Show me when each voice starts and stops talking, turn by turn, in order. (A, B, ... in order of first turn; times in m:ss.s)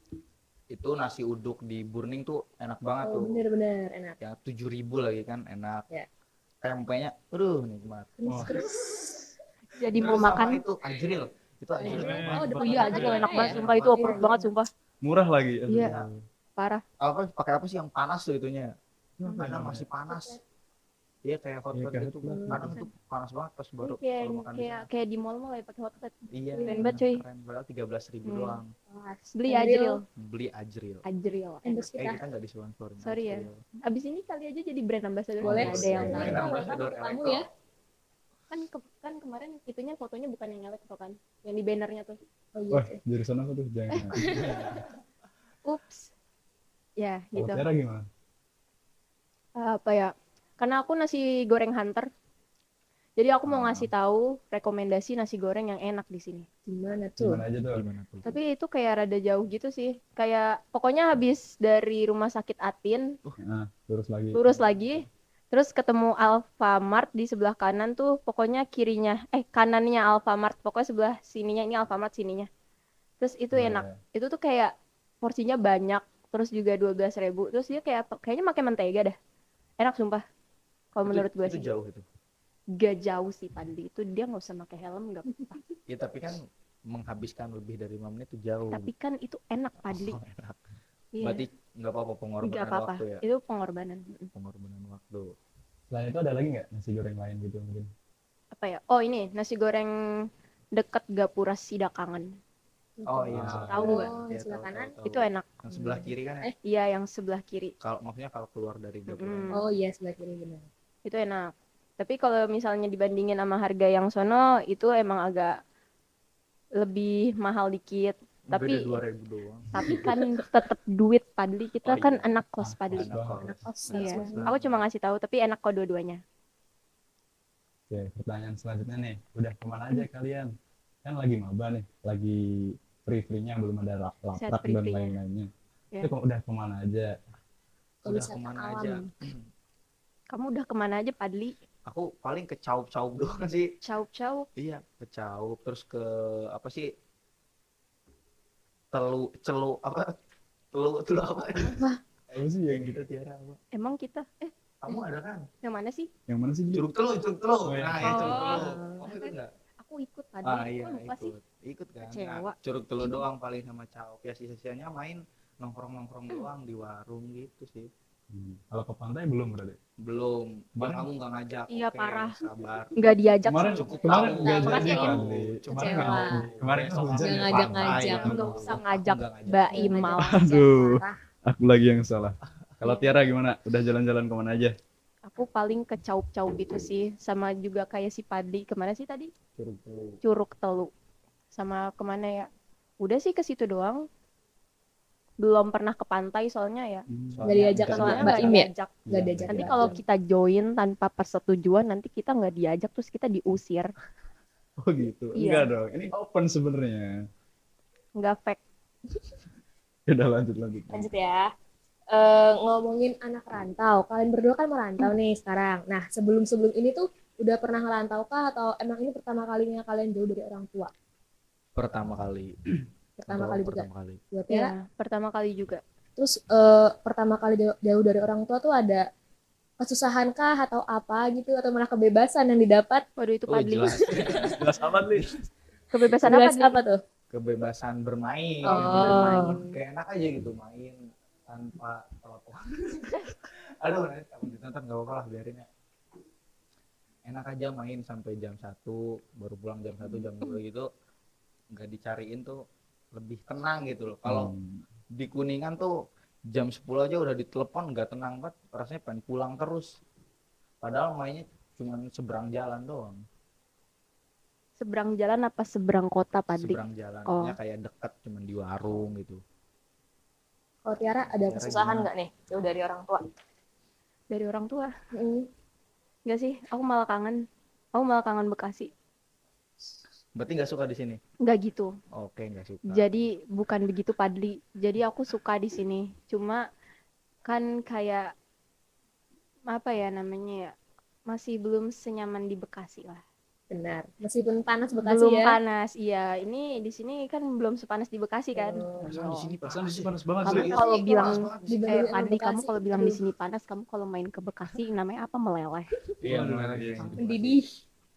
0:00.7-0:03.4 A
0:03.0-0:04.2 B
0:04.2-0:05.8 A
0:06.6-0:08.6 A
0:08.2-0:09.2 B
0:08.3-0:08.5 C
0:09.8-0:10.6 D
0:09.9-0:14.2 A
0:11.8-0:14.5 B
0:11.9-0:13.7 C
0:12.6-0:14.7 D
0:15.0-0:16.2 C
0:15.8-0:16.1 A
0:16.6-0:16.8 D
0:17.0-0:18.7 A
0:19.2-0:19.9 C
0:19.4-0:20.4 A
0:20.1-0:20.4 B
0:21.2-0:24.9 A
0:21.7-0:22.8 C
0:22.4-0:22.7 B
0:23.8-0:27.2 D
0:26.3-0:28.7 A
0:26.5-0:26.8 B
0:28.2-0:28.6 D
0:28.9-0:30.0 B
0:29.3-0:30.0 D
0:30.2-0:31.0 A
0:31.1-0:31.8 D
0:31.6-0:32.2 B
0:32.0-0:33.6 A
0:33.0-0:36.7 D
0:35.4-0:37.4 A
0:35.5-0:37.5 B
0:35.7-0:36.4 C
0:38.5-0:42.2 D
0:42.6-0:43.0 B
0:42.7-0:44.8 C
0:44.2-0:44.7 B
0:45.6-0:46.1 D
0:47.0-0:47.6 D
0:47.4-0:48.0 C
0:49.6-0:52.1 D
0:53.2-0:56.5 D
0:53.5-0:53.9 A
0:56.7-0:57.4 B
0:57.2-0:57.8 C
0:57.7-0:58.4 A
0:58.2-1:03.2 D
1:03.4-1:04.6 C
1:04.4-1:12.5 D
1:13.2-1:19.2 D
1:13.5-1:14.0 C
1:19.8-1:20.2 D
1:21.0-1:21.7 D
1:21.1-1:22.1 A
1:22.8-1:25.6 D
1:25.9-1:26.4 A
1:26.9-1:28.9 A
1:28.7-1:30.2 D
1:29.9-1:30.6 A
1:31.2-1:31.5 D
1:31.2-1:33.2 A
1:32.4-1:34.3 D
1:34.3-1:35.3 A
1:35.9-1:37.9 C
1:38.6-1:42.3 D
1:43.0-1:44.9 B
1:43.1-1:46.5 A
1:43.3-1:43.8 C
1:43.7-1:44.1 D
1:45.0-1:45.5 D
1:45.7-1:46.5 B
1:46.6-1:47.7 D
1:47.8-1:49.6 A
1:49.1-1:49.6 D
1:49.5-1:50.7 B
1:51.1-1:55.6 D
1:56.8-1:59.0 D
1:58.5-1:59.7 A
1:59.7-2:03.1 D
2:01.8-2:02.3 A
2:02.6-2:03.6 C
2:02.9-2:04.8 A
2:03.4-2:04.5 B
2:03.9-2:06.2 D
2:07.9-2:10.5 C
2:11.0-2:15.5 C
2:14.4-2:15.2 D
2:16.0-2:17.2 C
2:18.0-2:19.4 A
2:18.1-2:19.1 B
2:20.3-2:21.6 D
2:21.9-2:23.7 A
2:23.8-2:24.5 D
2:24.6-2:26.9 A
2:28.9-2:30.1 A
2:30.7-2:31.8 A
2:32.3-2:33.0 C
2:32.7-2:33.6 A
2:33.7-2:34.5 D
2:34.8-2:35.5 A
2:35.6-2:36.1 D
2:36.3-2:36.8 C
2:36.7-2:39.5 A
2:37.6-2:38.6 C
2:38.0-2:41.3 D
2:38.5-2:39.1 B
2:40.4-2:47.9 A
2:42.0-2:42.6 D
2:48.3-2:49.8 C
2:50.0-2:53.0 A
2:51.7-2:52.4 D
2:53.0-2:54.0 D
2:53.5-2:58.5 C
2:53.6-2:55.1 B
2:53.7-3:00.0 A
2:54.6-2:55.2 D
2:55.7-2:56.4 B
2:57.2-3:01.2 B
2:57.9-2:58.9 D
2:59.5-3:00.4 D
3:00.2-3:04.7 C
3:05.3-3:09.3 D
3:09.6-3:10.2 A
3:10.2-3:10.9 D
3:11.6-3:12.5 D
3:13.0-3:14.0 D
3:15.4-3:17.1 D
3:17.1-3:17.4 C
3:17.3-3:20.0 A
3:17.4-3:20.0 B
3:17.9-3:18.9 D
3:19.5-3:23.9 D
3:24.8-3:27.1 C
3:25.4-3:25.7 D
3:28.2-3:28.6 D
3:30.1-3:31.1 C
3:30.9-3:31.4 B
3:32.1-3:40.9 B
3:41.8-3:42.5 A
3:43.2-3:44.7 B
3:43.3-3:44.2 A
3:44.5-3:45.8 D
3:46.2-3:49.1 B
3:49.8-3:53.0 B
3:53.2-3:54.4 D
3:53.5-3:55.4 A
3:54.0-3:54.6 B
3:54.6-3:55.3 C
3:55.9-3:56.8 D
3:56.2-3:57.0 B
3:57.3-4:05.7 A
3:58.6-3:59.8 D
3:58.6-3:59.5 B
4:07.3-4:10.9 A
4:11.7-4:12.6 A
4:13.1-4:14.5 A
4:14.3-4:14.8 C
4:15.1-4:15.9 A
4:16.5-4:20.0 A
4:20.8-4:23.2 A
4:24.8-4:27.6 D
4:26.6-4:29.4 A
4:30.9-4:33.2 B
4:31.4-4:32.1 A
4:34.3-4:34.9 D
4:35.2-4:35.5 B
4:36.3-4:37.4 D
4:38.0-4:38.9 D
4:40.4-4:41.2 A
4:41.4-4:41.9 D
4:42.1-4:43.3 A
4:42.9-4:46.6 D
4:47.5-4:48.3 D
4:49.7-4:50.7 D
4:51.3-4:53.2 D
4:53.7-4:55.6 B
4:55.0-4:59.5 D
4:58.6-4:59.1 B
4:59.0-5:02.1 A
4:59.2-5:00.7 C
5:00.4-5:05.9 D
5:00.6-5:03.2 B
5:06.2-5:07.8 A
5:06.2-5:07.2 C
5:07.2-5:07.7 B